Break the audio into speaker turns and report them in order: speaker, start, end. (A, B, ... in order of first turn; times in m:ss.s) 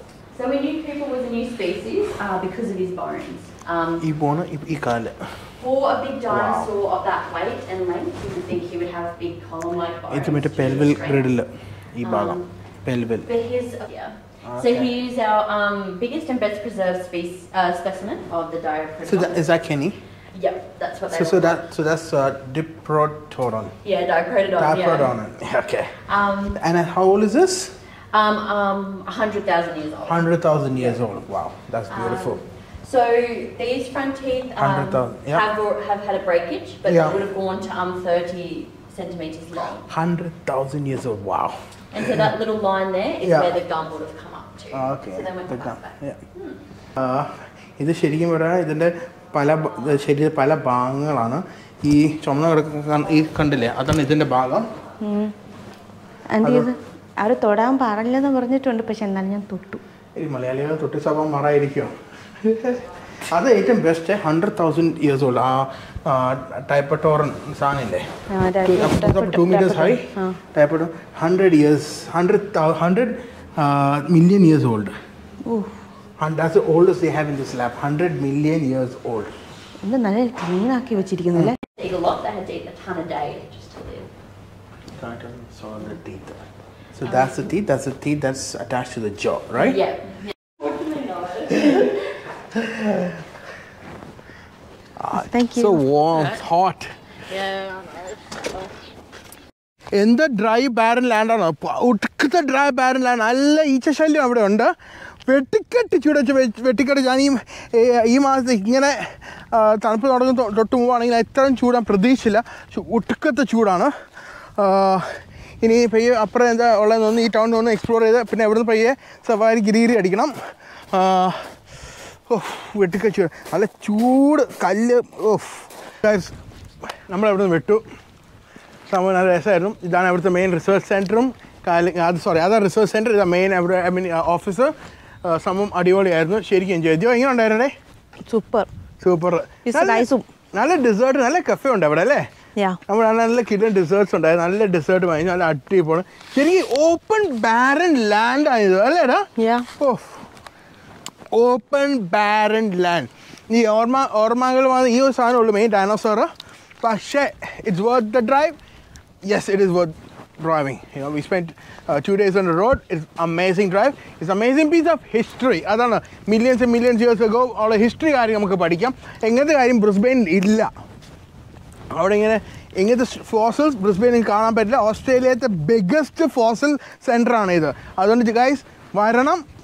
0:00.3-0:04.1 A
0:04.0-0:05.3 B
0:05.6-0:11.3 A
0:06.3-0:06.7 B
0:10.1-0:13.3 B
0:12.0-0:12.5 A
0:13.2-0:19.5 A
0:14.4-0:14.9 B
0:19.0-0:20.0 B
0:20.3-0:21.6 A
0:21.1-0:23.7 B
0:23.8-0:25.2 A
0:24.6-0:26.0 B
0:26.0-0:26.6 A
0:26.5-0:27.7 B
0:28.1-0:31.0 A
0:30.0-0:32.4 B
0:31.9-0:39.9 A
0:34.6-0:35.5 B
0:36.8-0:37.2 B
0:39.9-0:42.2 B
0:41.9-0:46.6 A
0:43.2-0:43.6 B
0:44.7-0:46.2 B
0:47.0-0:54.7 B
0:55.0-0:55.3 C
0:56.3-0:59.8 C
0:56.4-0:56.7 B
1:00.2-1:08.0 B
1:08.3-1:10.4 C
1:08.6-1:14.9 B
1:15.4-1:15.8 C
1:16.2-1:19.3 B
1:19.8-1:21.6 C
1:21.7-1:24.1 A
1:25.0-1:26.4 B
1:26.9-1:29.8 B
1:27.0-1:27.3 A
1:29.6-1:32.3 A
1:35.0-1:36.9 B
1:35.2-1:35.8 C
1:37.3-1:38.7 A
1:39.9-1:44.7 B
1:45.3-1:53.9 B
1:54.6-2:00.3 B
2:00.9-2:01.5 B
2:02.3-2:06.3 B
2:07.1-2:07.8 B
2:08.9-2:14.7 B
2:15.2-2:17.7 B
2:18.3-2:18.7 C
2:19.0-2:22.2 B
2:19.6-2:20.2 C
2:22.9-2:30.2 B
2:29.4-2:29.7 C
2:31.3-2:36.3 B
2:36.8-2:38.6 B
2:39.2-2:50.7 B
2:51.9-2:59.4 B